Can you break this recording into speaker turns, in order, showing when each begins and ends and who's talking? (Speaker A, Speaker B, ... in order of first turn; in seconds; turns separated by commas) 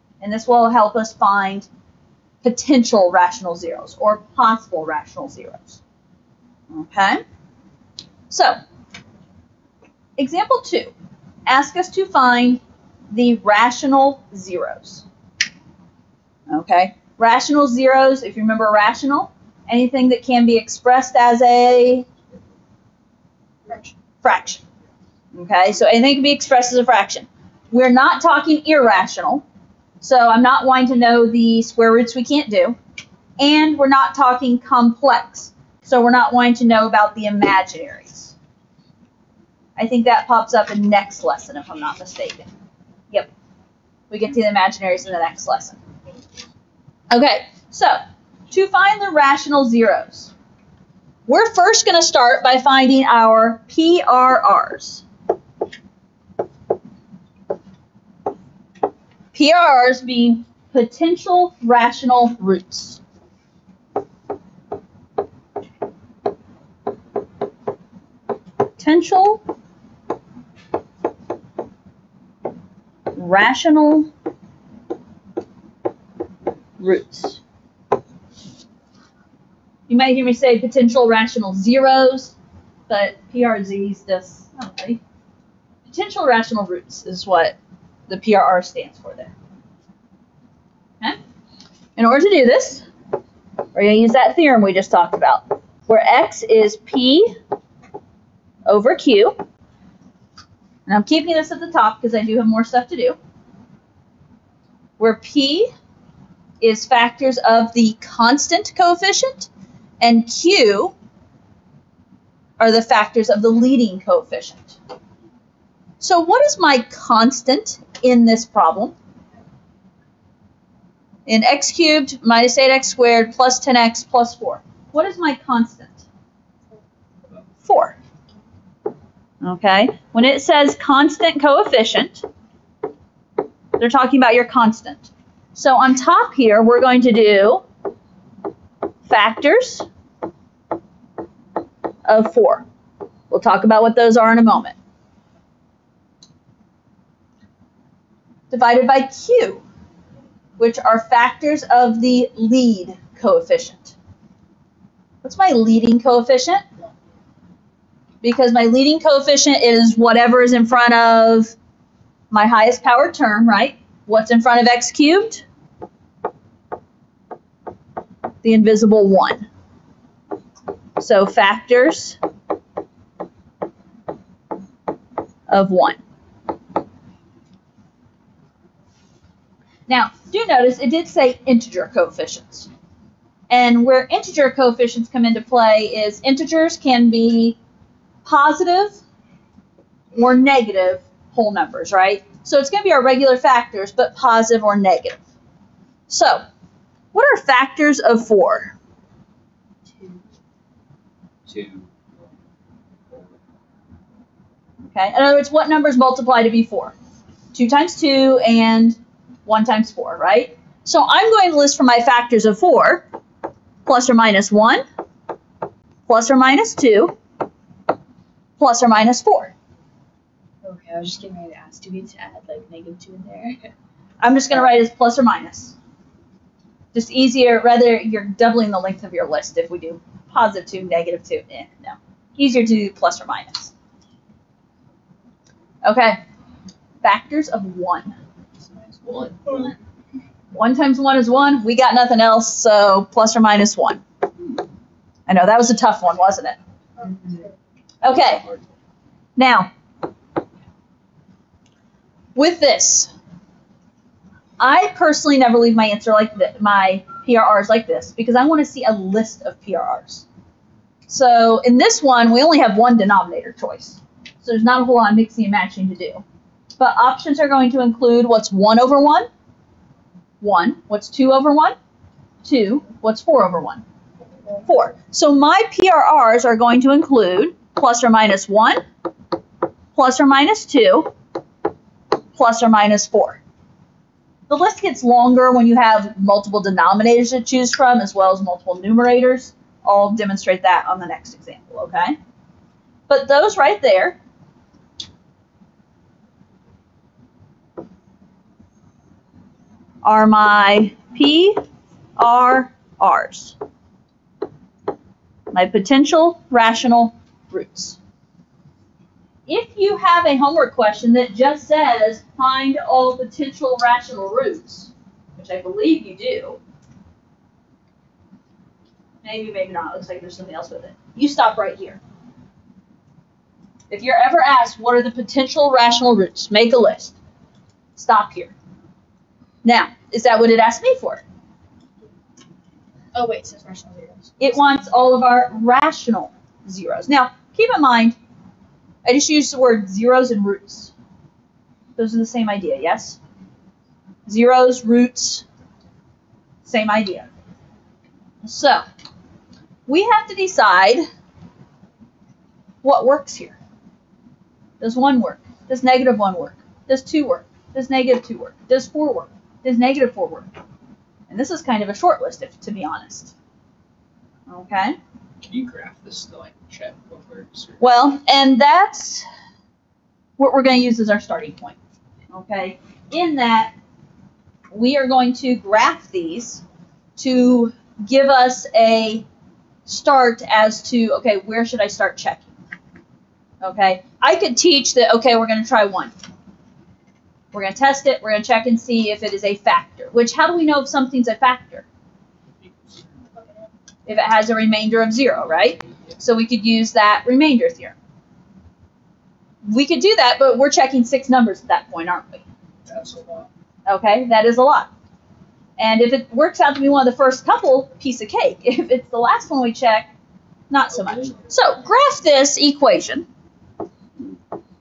Speaker A: 0.2-1.7, Speaker A: 2.4-5.8, Speaker A: 6.7-7.2, Speaker A: 8.3-8.6, Speaker A: 10.2-10.9, Speaker A: 11.5-15.1, Speaker A: 16.5-22.1, Speaker B: 23.7-23.9, Speaker A: 24.2-24.6, Speaker A: 25.3-29.4, Speaker A: 30.0-32.8, Speaker A: 33.4-38.3, Speaker A: 39.8-42.5, Speaker A: 44.1-45.8, Speaker A: 47.1-50.3, Speaker A: 51.3-55.0, Speaker A: 59.3-63.0, Speaker A: 68.8-69.4, Speaker A: 73.1-74.1, Speaker A: 76.8-77.4, Speaker A: 79.9-82.3, Speaker A: 82.9-85.0, Speaker A: 85.9-87.6, Speaker A: 88.1-89.3, Speaker A: 92.0-92.8, Speaker A: 93.7-97.3, Speaker A: 98.6-99.4, Speaker A: 100.9-103.2, Speaker A: 105.0-105.7, Speaker A: 106.6-109.5, Speaker A: 110.0-110.9, Speaker A: 112.6-114.8, Speaker A: 116.0-118.9, Speaker A: 121.2-126.0, Speaker A: 127.6-128.0, Speaker A: 129.4-132.2, Speaker A: 133.8-137.6, Speaker A: 139.1-139.9, Speaker A: 142.1-142.7, Speaker A: 143.3-144.8, Speaker A: 148.5-149.6, Speaker A: 150.6-153.9, Speaker A: 155.2-156.6, Speaker A: 158.2-161.5, Speaker A: 162.3-165.4, Speaker A: 168.4-169.5, Speaker A: 171.0-172.2, Speaker A: 175.5-176.0, Speaker A: 179.9-182.7, Speaker A: 183.5-187.6, Speaker A: 188.2-189.0, Speaker A: 190.1-195.2, Speaker A: 196.1-196.4, Speaker A: 197.1-198.7, Speaker C: 201.5-202.1, Speaker C: 203.1-203.4, Speaker A: 204.9-206.9, Speaker A: 207.5-213.0, Speaker A: 213.9-214.8, Speaker A: 216.1-217.1, Speaker A: 218.6-219.5, Speaker B: 220.6-223.7, Speaker A: 224.2-225.7, Speaker A: 226.9-233.7, Speaker A: 235.8-236.2, Speaker A: 237.0-238.2, Speaker C: 239.0-239.7, Speaker A: 240.5-244.0, Speaker A: 245.3-246.6, Speaker B: 247.0-247.5, Speaker A: 248.0-248.4, Speaker C: 248.0-248.7, Speaker A: 249.4-249.7, Speaker A: 252.3-253.1, Speaker A: 254.6-260.2, Speaker A: 261.1-266.2, Speaker A: 266.8-269.3, Speaker A: 270.4-271.8, Speaker A: 272.4-273.8, Speaker A: 274.6-278.8, Speaker A: 279.9-281.1, Speaker A: 282.4-283.4, Speaker A: 284.5-292.1, Speaker A: 293.1-294.2, Speaker A: 300.0-301.6, Speaker A: 302.1-303.6, Speaker A: 305.5-308.0, Speaker A: 309.5-316.6, Speaker A: 319.2-322.0, Speaker A: 323.9-327.1, Speaker A: 328.0-328.5, Speaker A: 329.6-331.2, Speaker B: 333.1-334.3, Speaker A: 334.4-338.1, Speaker A: 339.1-340.9, Speaker A: 342.0-343.2, Speaker A: 344.2-345.4, Speaker A: 346.6-347.3, Speaker A: 348.4-348.8, Speaker A: 349.9-351.1, Speaker A: 352.8-353.6, Speaker A: 354.8-360.5, Speaker A: 361.3-363.3, Speaker A: 364.5-365.0, Speaker C: 365.4-367.8, Speaker A: 367.8-369.2, Speaker A: 370.4-371.8, Speaker A: 372.3-373.7, Speaker A: 374.7-376.6, Speaker A: 377.2-379.2, Speaker A: 379.9-382.5, Speaker A: 383.6-386.1, Speaker A: 387.5-391.9, Speaker C: 392.6-393.1, Speaker A: 394.1-397.9, Speaker A: 399.6-402.4, Speaker C: 402.9-403.5, Speaker A: 403.9-404.9, Speaker A: 405.8-410.1, Speaker A: 410.7-413.2, Speaker C: 410.9-411.6